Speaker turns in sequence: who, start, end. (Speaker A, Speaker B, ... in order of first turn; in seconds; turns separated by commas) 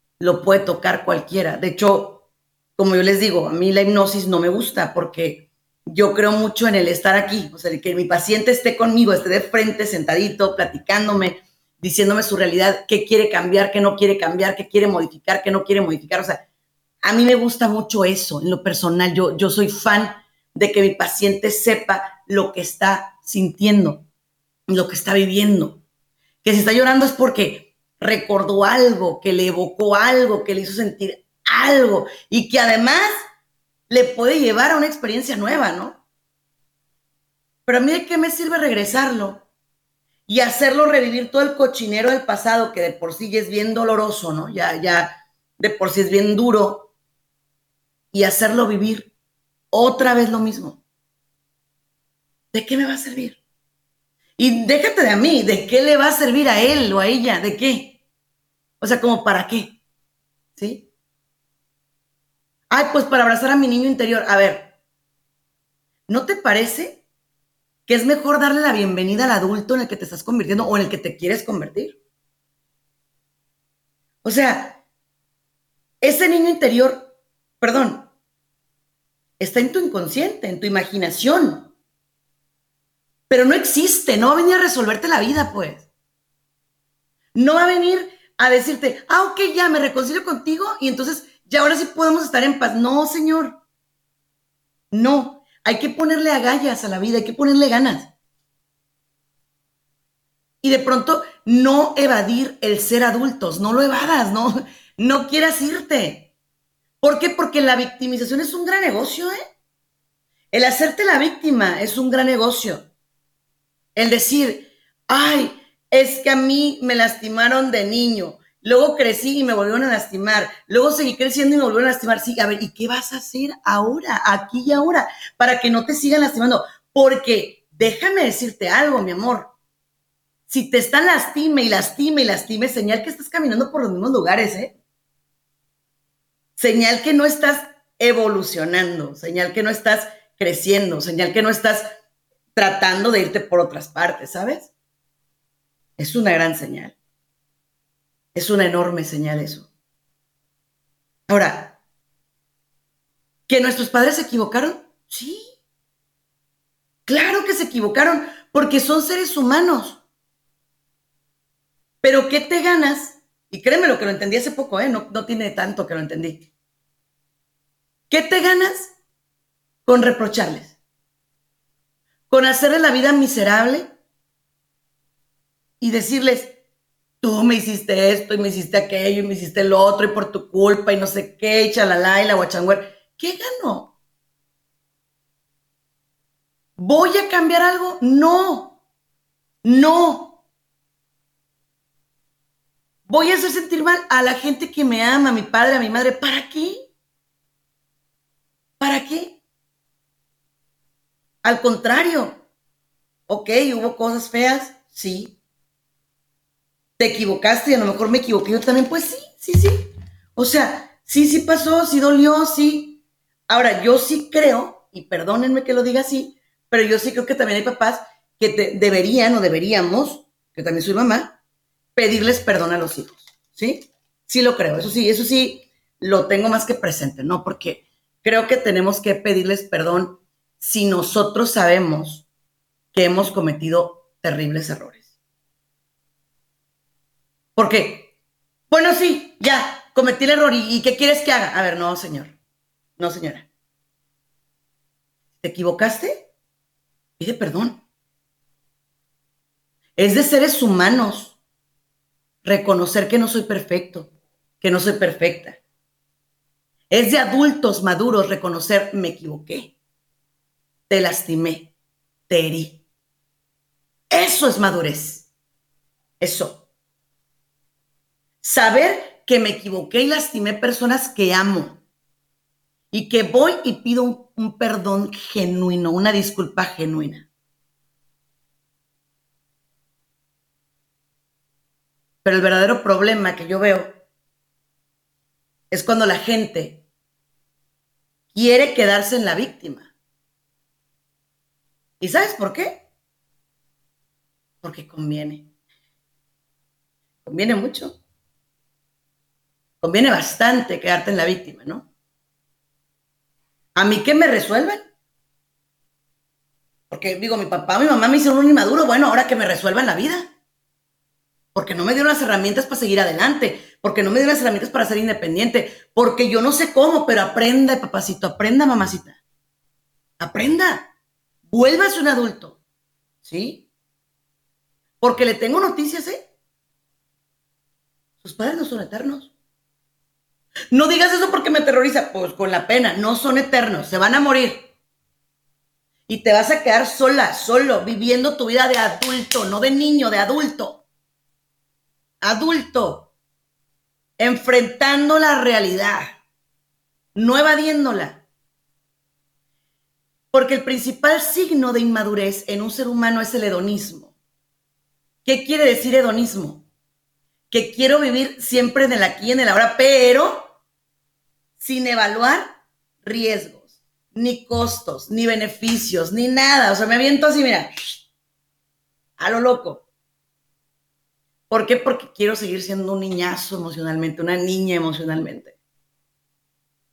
Speaker A: 0.2-2.2, Speaker A: 2.8-16.4, Speaker A: 17.0-24.1, Speaker A: 24.7-25.8, Speaker A: 26.4-33.1, Speaker A: 33.9-36.0, Speaker A: 37.7-39.5, Speaker A: 40.3-46.9, Speaker A: 48.1-49.1, Speaker A: 49.7-50.8, Speaker A: 52.5-53.4, Speaker A: 54.4-58.0, Speaker A: 58.8-59.8, Speaker A: 60.6-60.9, Speaker A: 62.7-64.7, Speaker A: 66.1-67.0, Speaker A: 67.9-72.0, Speaker A: 74.2-74.8, Speaker A: 76.0-78.1, Speaker A: 79.4-81.7, Speaker A: 83.3-85.9, Speaker A: 87.3-93.6, Speaker A: 94.9-98.1, Speaker A: 100.6-106.3, Speaker A: 107.0-109.3, Speaker A: 110.5-112.9, Speaker A: 114.0-129.5, Speaker A: 130.5-134.7, Speaker A: 136.6-141.8, Speaker A: 142.5-144.7, Speaker A: 146.0-146.9, Speaker A: 148.3-149.7, Speaker A: 151.3-151.8, Speaker A: 153.5-155.4, Speaker A: 157.1-160.0, Speaker A: 162.0-166.5, Speaker A: 168.1-168.9, Speaker A: 169.8-170.8, Speaker A: 172.3-173.9, Speaker A: 175.8-176.5, Speaker A: 177.2-183.9, Speaker A: 186.8-188.8, Speaker A: 189.6-190.4, Speaker A: 193.1-196.8, Speaker A: 198.8-199.4, Speaker A: 201.4-202.4, Speaker A: 203.3-205.3, Speaker A: 207.0-221.4, Speaker A: 221.9-232.2, Speaker A: 232.9-235.1, Speaker A: 237.6-238.1, Speaker A: 238.7-242.3, Speaker A: 243.0-243.5, Speaker A: 245.4-246.3, Speaker A: 247.2-247.8, Speaker A: 250.0-251.3, Speaker A: 252.4-255.6, Speaker A: 256.9-259.7, Speaker A: 260.9-261.7, Speaker A: 262.3-262.8, Speaker A: 264.1-265.3, Speaker A: 266.2-266.6, Speaker A: 268.4-271.8, Speaker A: 272.9-277.3, Speaker A: 282.2-283.9, Speaker A: 285.7-286.8, Speaker A: 288.3-289.9, Speaker A: 292.0-292.9, Speaker A: 294.6-295.5, Speaker A: 297.2-298.0, Speaker A: 299.8-301.9, Speaker A: 303.8-304.8, Speaker A: 306.9-310.3, Speaker A: 311.5-319.1, Speaker A: 320.2-320.9, Speaker A: 321.5-322.6, Speaker A: 323.2-323.6, Speaker A: 325.0-326.2, Speaker A: 328.2-329.3, Speaker A: 330.7-334.7, Speaker A: 336.1-340.8, Speaker A: 342.2-343.1, Speaker A: 344.2-346.2, Speaker A: 347.1-348.2, Speaker A: 350.3-354.1, Speaker A: 355.2-356.6, Speaker A: 357.5-360.5, Speaker A: 361.6-367.7, Speaker A: 369.2-369.8, Speaker A: 371.5-375.5